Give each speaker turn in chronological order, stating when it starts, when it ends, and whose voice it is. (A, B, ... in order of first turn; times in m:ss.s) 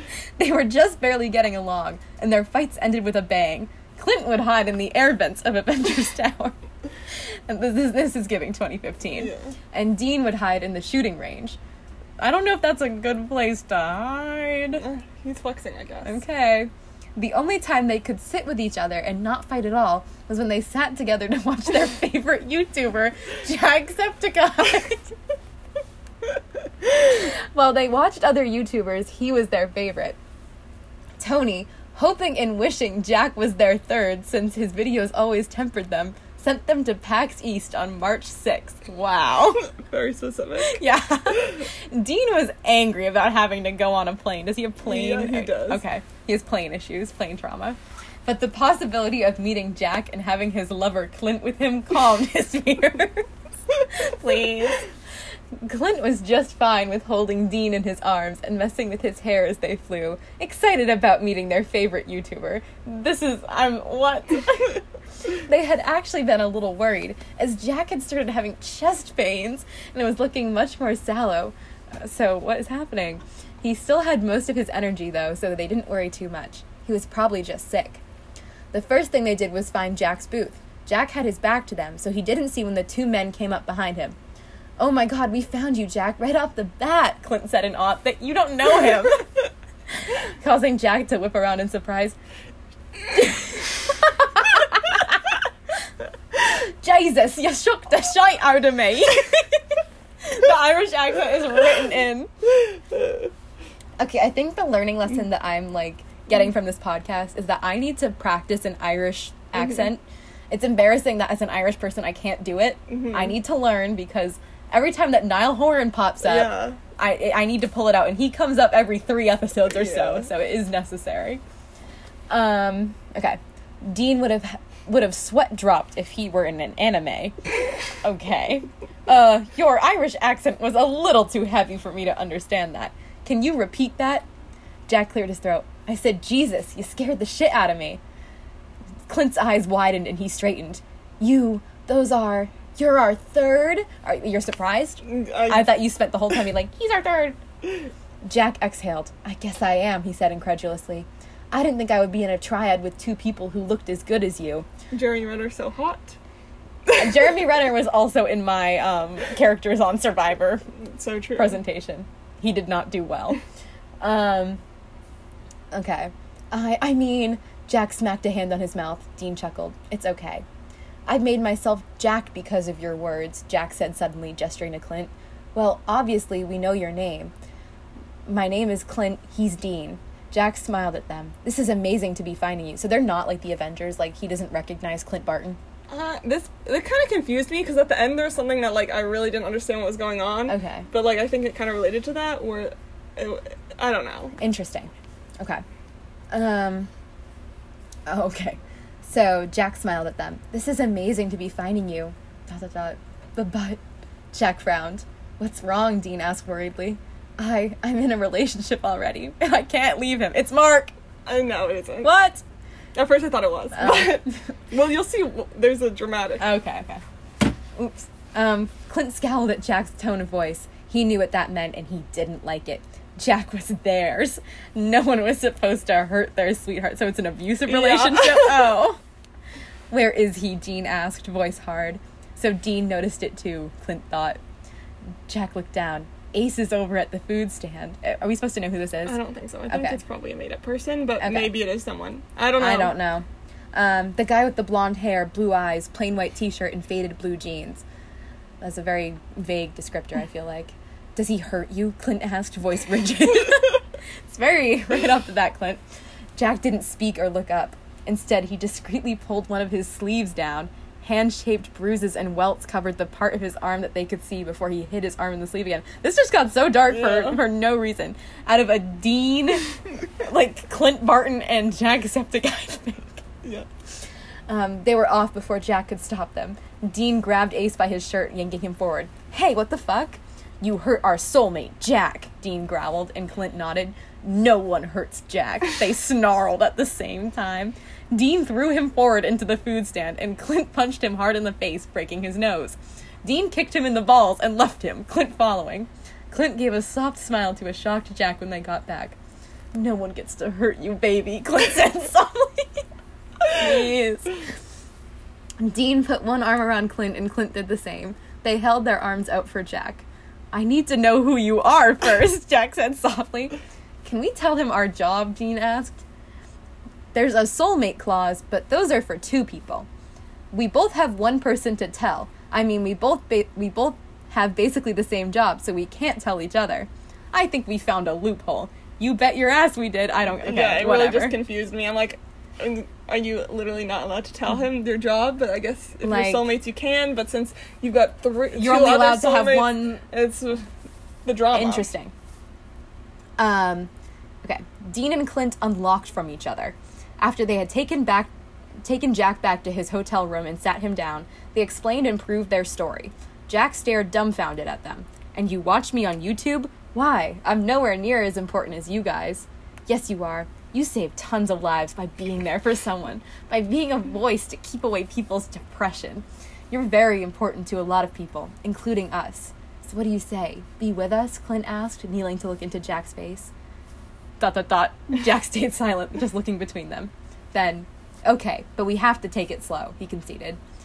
0:00.4-0:06.6 A
0:07.1-0:11.6 A
0:09.2-0:09.6 B
0:12.2-0:14.8 A
0:14.8-0:16.2 B
0:16.0-0:25.2 A
0:26.8-0:30.2 A
0:31.2-0:39.7 A
0:39.8-0:41.6 B
0:40.7-0:53.3 A
0:44.8-0:45.8 B
0:53.8-0:54.8 B
0:54.0-0:54.8 A
0:55.6-1:18.0 A
1:18.7-1:24.2 A
1:24.8-1:29.3 A
1:29.9-1:32.2 A
1:33.1-1:35.4 A
1:36.4-1:42.3 A
1:42.8-1:43.3 B
1:44.0-2:01.4 A
1:52.9-1:53.4 B
1:56.2-1:56.8 B
1:59.7-2:00.3 B
2:02.3-2:07.4 A
2:07.9-2:14.3 A
2:14.9-2:18.0 A
2:19.1-2:27.4 A
2:25.0-2:25.8 B
2:28.2-2:34.7 A
2:34.9-2:36.2 B
2:36.9-2:37.6 B
2:37.0-2:40.6 A
2:40.8-2:41.6 B
2:41.4-2:43.4 A
2:44.0-2:44.6 A
2:45.7-2:50.4 A
2:51.1-2:57.3 A
2:58.3-3:05.6 A
3:05.9-3:14.4 B
3:10.5-3:10.9 A
3:14.4-3:15.6 A
3:16.3-3:16.9 A
3:18.1-3:23.8 A
3:24.3-3:30.9 A
3:31.3-3:32.1 B
3:32.0-3:32.4 A
3:33.0-3:36.5 B
3:33.8-3:34.4 A
3:36.4-3:37.0 A
3:37.7-3:49.0 A
3:47.7-3:48.8 B
3:49.9-3:54.4 A
3:55.3-3:59.2 A
3:59.1-4:03.0 B
3:59.7-4:00.0 A
4:01.2-4:01.5 A
4:02.6-4:07.8 A
4:08.6-4:15.8 A
4:16.4-4:33.2 A
4:26.9-4:27.4 B
4:34.5-4:59.2 A
4:59.7-5:02.9 A
5:03.5-5:04.4 A
5:05.6-5:16.0 A
5:17.1-5:19.9 A
5:20.5-5:31.4 A
5:30.4-5:40.7 B
5:36.0-5:36.5 A
5:38.5-5:40.0 A
5:41.3-5:41.9 B
5:41.5-5:42.1 A
5:43.4-5:43.9 A
5:44.4-5:48.3 A
5:48.8-6:13.5 A
6:14.4-6:20.6 A